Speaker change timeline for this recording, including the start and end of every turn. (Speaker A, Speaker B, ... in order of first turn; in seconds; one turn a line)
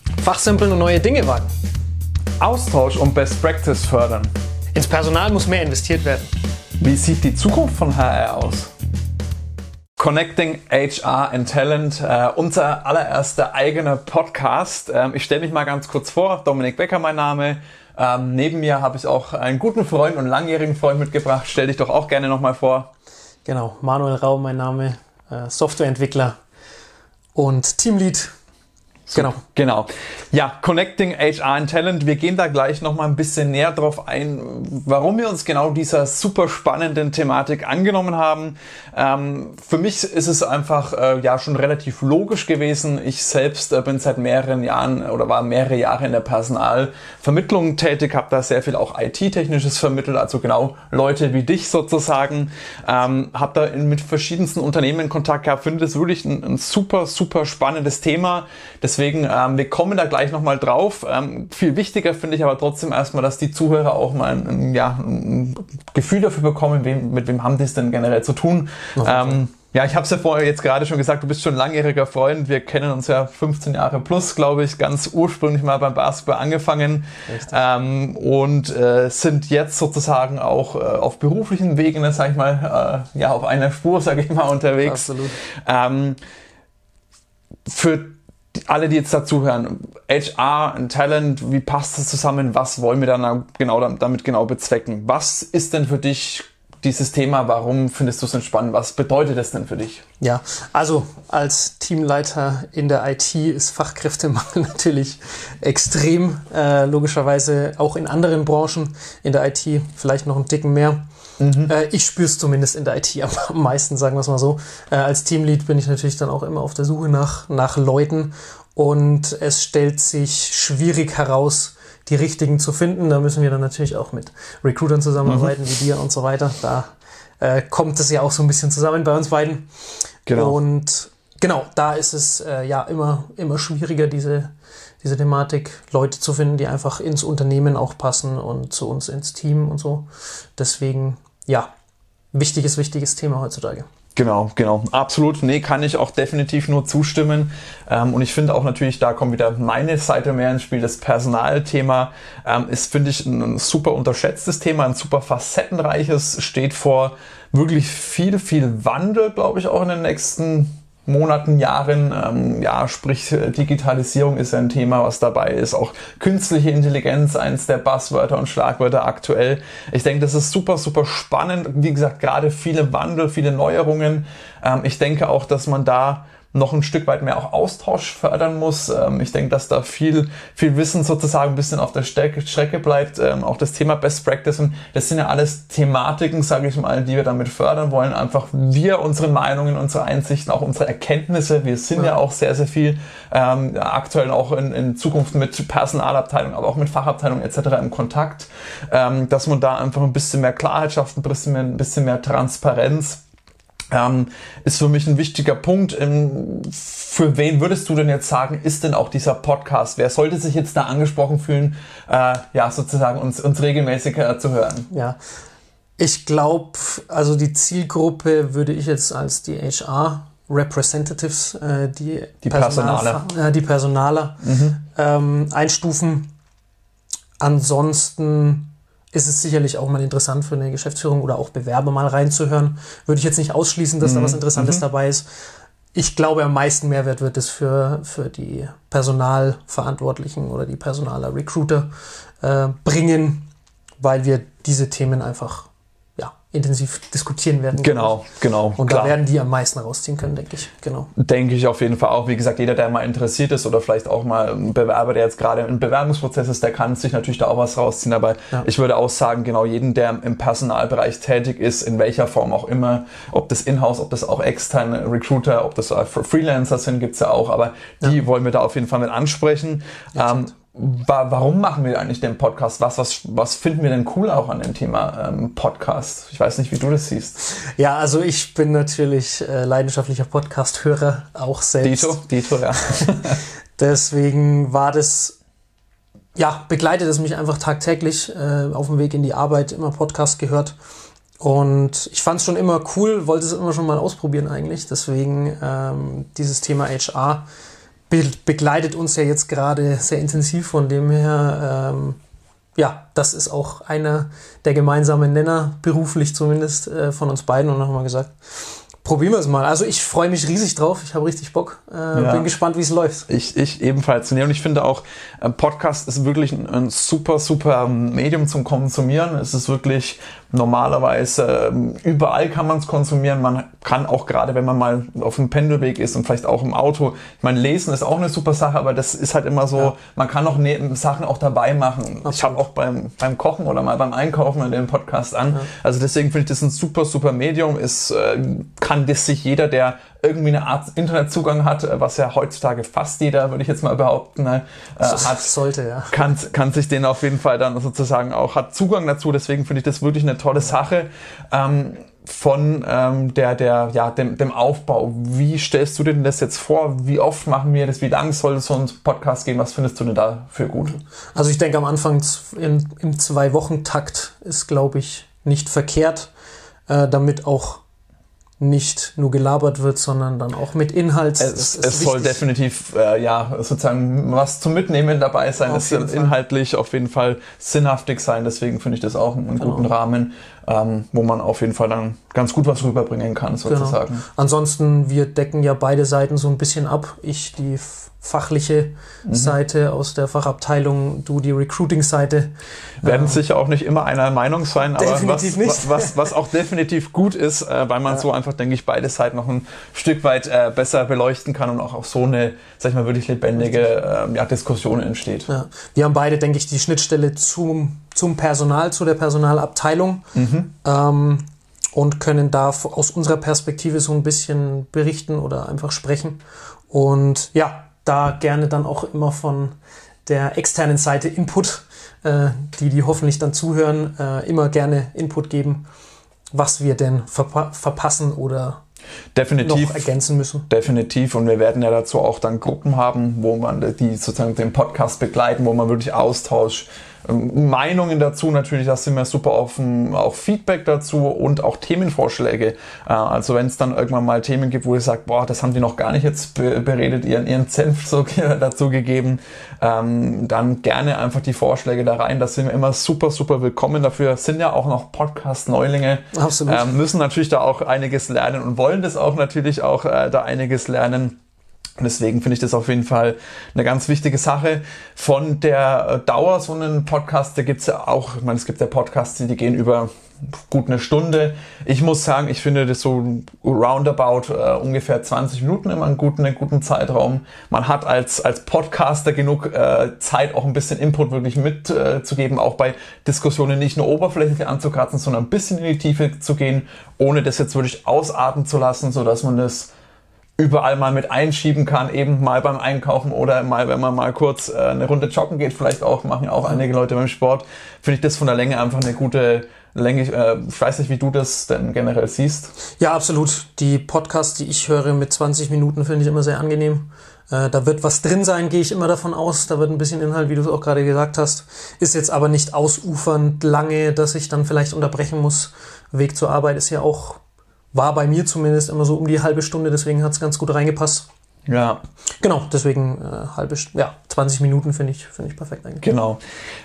Speaker A: 0.2-1.5
Speaker B: 2.4-4.3
Speaker A: 4.8-6.3
Speaker B: 6.8-8.7
Speaker B: 10.0-22.9
Speaker A: 23.4-26.4
Speaker A: 27.4-28.3
Speaker B: 29.1-86.2
Speaker A: 69.0-69.4
Speaker A: 77.3-77.5
Speaker A: 84.8-85.4
Speaker B: 87.7-88.2
Speaker B: 88.7-100.0
Speaker A: 100.2-111.1
Speaker B: 111.4-111.7
Speaker A: 111.7-126.9
Speaker B: 125.2-125.5
Speaker A: 127.4-129.7
Speaker B: 130.3-130.6
Speaker A: 130.3-141.7
Speaker A: 142.3-143.8
Speaker B: 144.2-203.2
Speaker B: 203.9-214.9
Speaker A: 214.9-215.2
Speaker A: 216.0-226.3
Speaker B: 222.4-223.2
Speaker B: 224.4-224.8
Speaker A: 227.4-235.3
Speaker B: 234.0-234.8
Speaker A: 235.9-241.9
Speaker A: 242.4-243.5
Speaker A: 244.0-248.2
Speaker B: 247.8-249.2
Speaker A: 248.8-251.1
Speaker B: 251.2-277.4
Speaker A: 270.2-270.5
Speaker A: 277.6-282.2
Speaker B: 281.8-283.4
Speaker A: 283.8-285.4
Speaker A: 286.4-290.8
Speaker A: 291.4-297.5
Speaker A: 298.1-302.2
Speaker A: 302.8-313.3
Speaker B: 312.1-312.5
Speaker B: 313.3-345.5
Speaker A: 332.3-332.6
Speaker A: 345.0-346.2
Speaker B: 346.1-361.0
Speaker A: 361.3-366.3
Speaker A: 366.9-367.8
Speaker A: 368.6-372.4
Speaker B: 371.4-384.2
Speaker A: 375.6-376.4
Speaker A: 379.6-379.9
Speaker A: 383.7-393.4
Speaker B: 389.3-389.6
Speaker B: 393.0-405.5
Speaker A: 395.0-396.2
Speaker A: 405.5-410.2
Speaker B: 410.4-410.7
Speaker A: 410.8-425.9
Speaker A: 426.5-428.8
Speaker B: 429.4-430.1
Speaker A: 429.6-430.7
Speaker B: 430.7-461.4
Speaker A: 456.3-457.0
Speaker B: 462.0-489.9
Speaker B: 490.6-502.7
Speaker A: 503.0-517.4
Speaker A: 517.9-521.3
Speaker B: 521.7-522.0
Speaker A: 522.4-526.0
Speaker B: 526.0-526.4